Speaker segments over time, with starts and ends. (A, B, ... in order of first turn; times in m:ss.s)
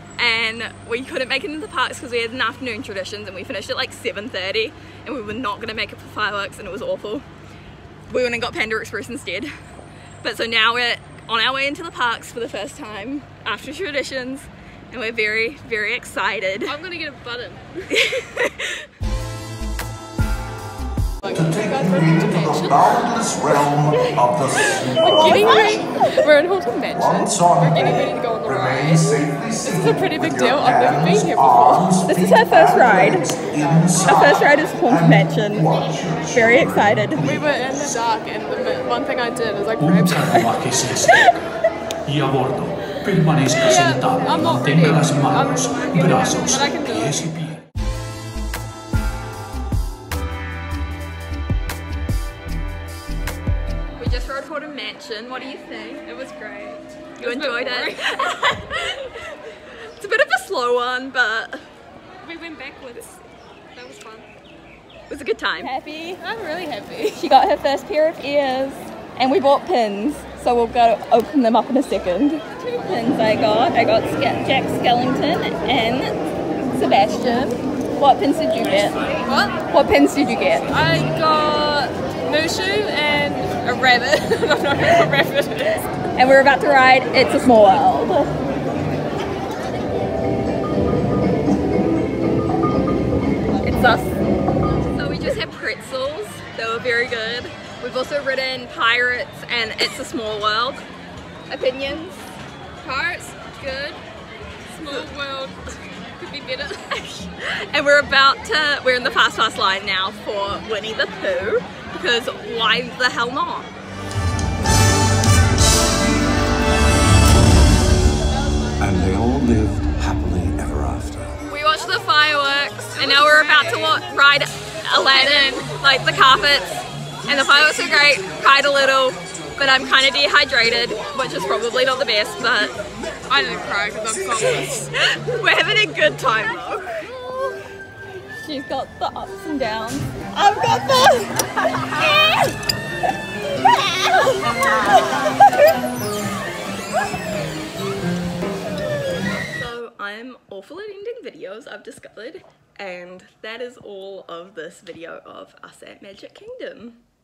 0:00.2-0:07.2 A
0:08.1-0:09.5 A
0:10.2-0:16.8 A
0:16.6-0:17.8 B
0:17.9-0:18.9 A
0:21.2-0:32.0 B
0:21.3-0:25.8 C
0:25.2-0:26.0 A
0:27.0-0:37.5 C
0:32.1-0:33.3 A
0:33.6-0:34.0 B
0:34.0-0:37.2 A
0:37.2-0:40.5 B
0:39.8-0:41.2 D
0:41.1-0:41.4 A
0:42.0-0:47.6 D
0:43.6-0:47.3 B
0:54.0-0:56.0 A
0:56.0-0:58.3 B
0:57.2-1:01.6 A
1:02.2-1:03.2 B
1:03.7-1:04.3 B
1:05.1-1:06.2 A
1:05.6-1:07.3 B
1:07.2-1:16.1 A
1:16.7-1:20.7 A
1:19.2-1:19.6 B
1:20.7-1:25.9 B
1:26.2-1:28.3 A
1:33.6-1:34.2 A
1:34.8-1:40.9 A
1:41.5-1:42.3 A
1:42.8-1:44.0 B
1:44.7-1:45.6 B
1:46.2-1:46.9 B
1:46.9-1:53.7 A
1:58.6-1:59.2 B
1:58.8-2:01.2 C
2:01.5-2:06.7 A
2:03.0-2:04.0 B
2:05.0-2:05.7 B
2:07.2-2:12.8 A
2:13.3-2:14.9 B
2:14.9-2:17.1 A
2:18.3-2:22.5 A
2:23.7-2:25.4 A
2:29.5-2:37.0 A